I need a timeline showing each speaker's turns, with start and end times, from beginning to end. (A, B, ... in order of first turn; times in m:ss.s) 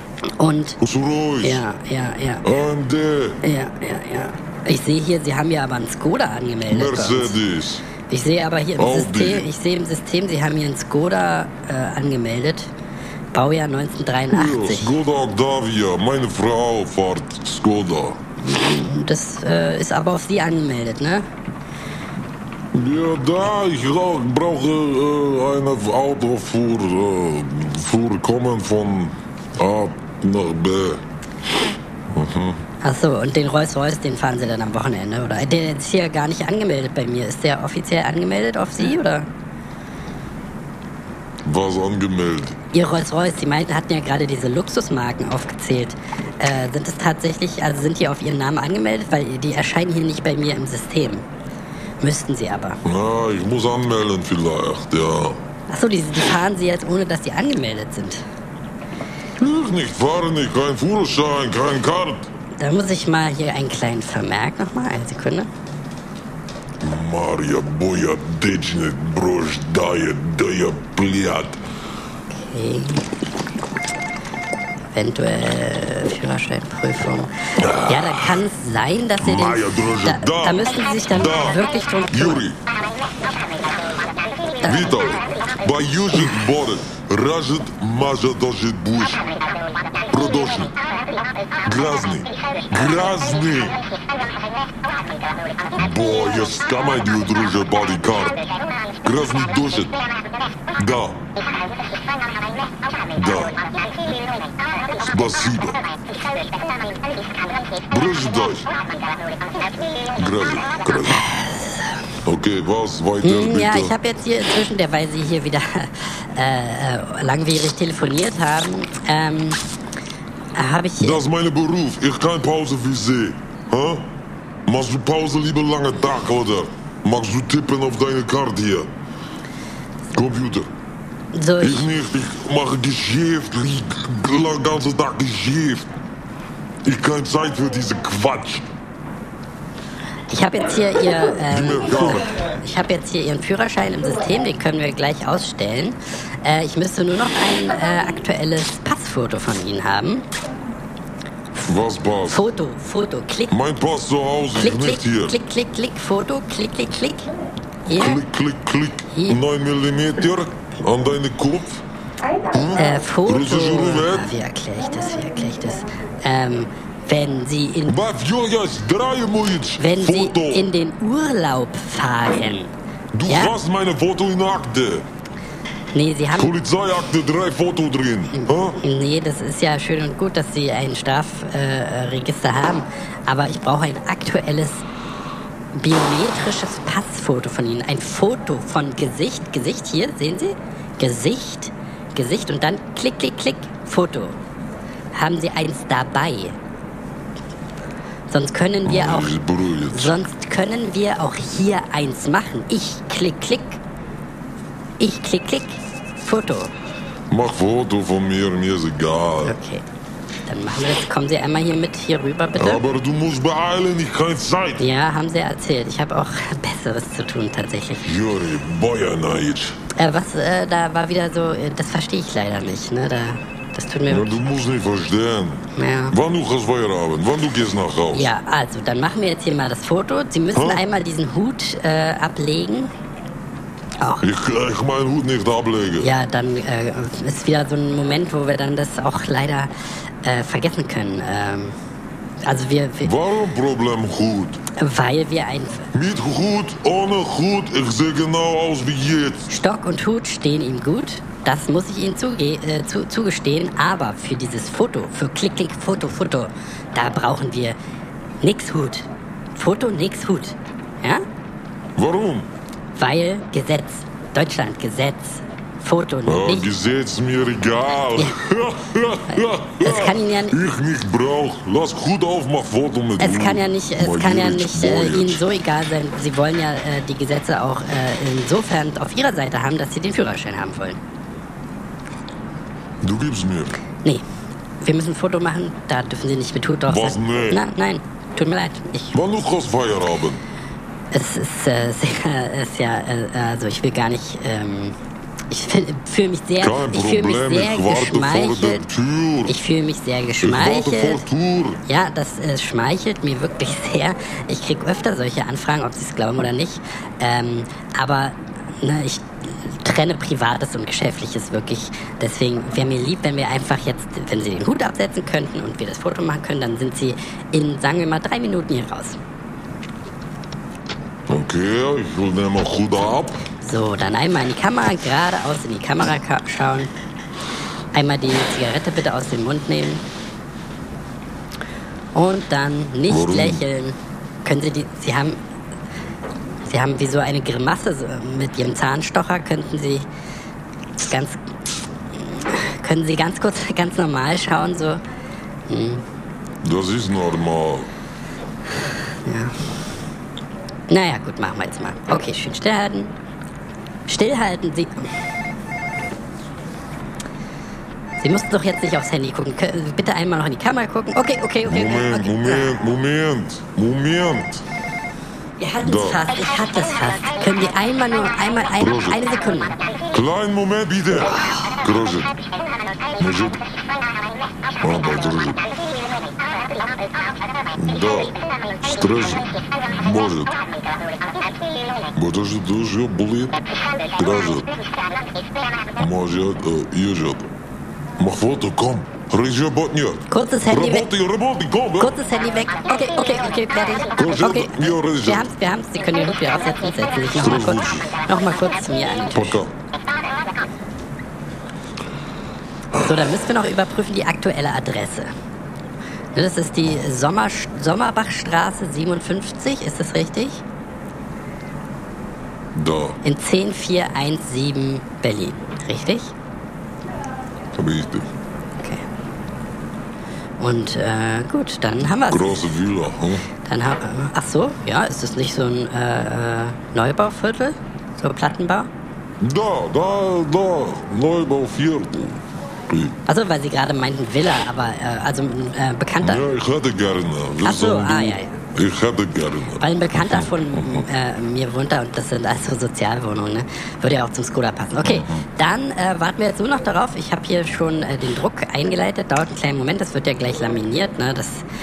0:00.4-0:00.8 A
0:00.8-0:01.6 B
0:01.4-0:02.5 A
0:02.4-0:03.4 B
0:03.4-0:07.4 A
0:06.7-0:07.8 B
0:08.1-0:12.7 A
0:08.8-0:09.5 B
0:13.3-0:14.9 A
0:14.3-0:18.2 B
0:18.4-0:21.3 A
0:22.7-0:31.0 B
0:32.1-0:32.6 B
0:32.8-0:39.3 A
0:41.4-0:42.6 B
0:42.7-0:51.2 A
0:52.0-0:52.8 A
0:52.8-0:55.4 B
0:55.7-0:58.2 A
0:59.4-1:02.3 B
1:02.6-1:05.5 A
1:06.8-1:11.6 B
1:12.3-1:13.1 A
1:15.0-1:22.4 A
1:17.6-1:18.4 B
1:19.2-1:22.6 B
1:24.6-1:24.9 A
1:24.6-1:29.3 B
1:30.1-1:30.7 B
1:31.6-1:33.8 B
1:35.7-1:38.4 B
1:39.0-1:40.0 B
1:40.8-1:41.2 B
1:43.1-1:43.6 B
1:45.0-1:45.8 B
1:47.9-1:48.7 B
1:50.2-1:51.3 B
1:51.1-1:51.9 A
1:52.2-1:54.0 B
1:53.2-1:59.6 A
2:00.6-2:01.2 A
2:01.0-2:04.1 B
2:04.7-2:08.9 B
2:10.1-2:10.7 B
2:11.3-2:11.9 A
2:11.6-2:15.9 B
2:16.8-2:18.7 B
2:20.3-2:30.3 A
2:21.5-2:22.3 B
2:31.6-2:32.5 B
2:32.3-2:33.6 A
2:33.5-2:35.4 B
2:34.6-2:37.3 A
2:37.9-2:38.2 A
2:37.9-2:41.8 B
2:39.1-2:39.4 A
2:42.5-2:44.3 B
2:42.7-2:48.0 A
2:47.9-2:50.7 B
2:49.8-2:52.7 A
2:53.1-2:55.1 B
2:53.3-2:53.6 A
2:55.9-2:56.6 A
2:56.4-2:58.8 B
2:58.3-3:04.8 A
3:05.7-3:14.4 A
3:15.1-3:16.6 A
3:18.3-3:19.4 A
3:18.8-3:20.2 B
3:19.9-3:23.8 A
3:25.0-3:26.7 A
3:27.3-3:29.6 B
3:29.4-3:29.8 A
3:30.5-3:32.8 A
3:32.6-3:34.8 B
3:34.8-3:38.1 A
3:38.0-3:39.8 B
3:40.0-3:44.4 A
3:44.1-3:48.3 B
3:45.8-3:46.2 A
3:48.1-3:52.9 A
3:50.6-3:50.8 B
3:54.0-3:54.3 A
3:54.2-3:56.1 B
3:56.0-3:59.7 A
4:00.2-4:01.8 A
4:02.4-4:03.1 A
4:03.0-4:04.6 B
4:04.8-4:05.9 A
4:05.9-4:09.5 B
4:09.5-4:17.8 A
4:18.4-4:21.2 A
4:22.0-4:22.5 B
4:23.0-4:26.7 A
4:26.3-4:35.4 B
4:29.3-4:30.6 A
4:33.2-4:41.0 A
4:43.0-4:43.8 B
4:44.8-4:49.2 A
4:46.9-4:47.6 B
4:49.1-4:50.4 B
4:51.1-4:55.0 A
4:55.5-4:58.9 A
4:56.6-4:59.6 B
4:59.5-5:01.2 A
5:00.4-5:01.8 B
5:01.8-5:19.2 A
5:21.3-5:23.4 B
5:23.6-5:26.9 A
5:27.9-5:30.0 A
5:32.1-5:35.4 A
5:33.1-5:33.6 B
5:36.6-5:40.1 A
5:41.0-5:41.4 A
5:42.2-5:45.0 A
5:45.7-5:46.0 A
5:46.6-5:47.9 B
5:49.3-5:49.6 A
5:50.9-5:53.1 A
5:54.1-5:55.1 A
5:58.2-6:02.8 A
6:01.6-6:04.6 B
6:05.6-6:09.8 A
6:05.8-6:06.3 B
6:08.8-6:09.2 B
6:10.1-6:12.3 B
6:13.2-6:13.6 B
6:14.8-6:15.7 B
6:17.8-6:20.6 B
6:22.1-6:24.8 B
6:26.0-6:27.5 B
6:28.2-6:32.2 B
6:30.3-6:31.1 A
6:32.0-6:39.6 A
6:34.2-6:35.5 B
6:37.4-6:38.1 B
6:39.3-6:39.7 B
6:42.9-6:45.3 A
6:46.4-6:50.6 A
6:52.7-6:53.2 B
6:53.2-6:56.3 A
6:57.8-6:58.3 B
6:58.8-6:59.0 A
7:00.6-7:02.7 A
7:02.2-7:03.5 B
7:03.6-7:08.9 A
7:09.4-7:12.3 B
7:12.9-7:13.2 B
7:13.3-7:16.4 A
7:16.2-7:21.1 B
7:17.6-7:18.6 A
7:19.8-7:31.6 A
7:25.0-7:25.4 B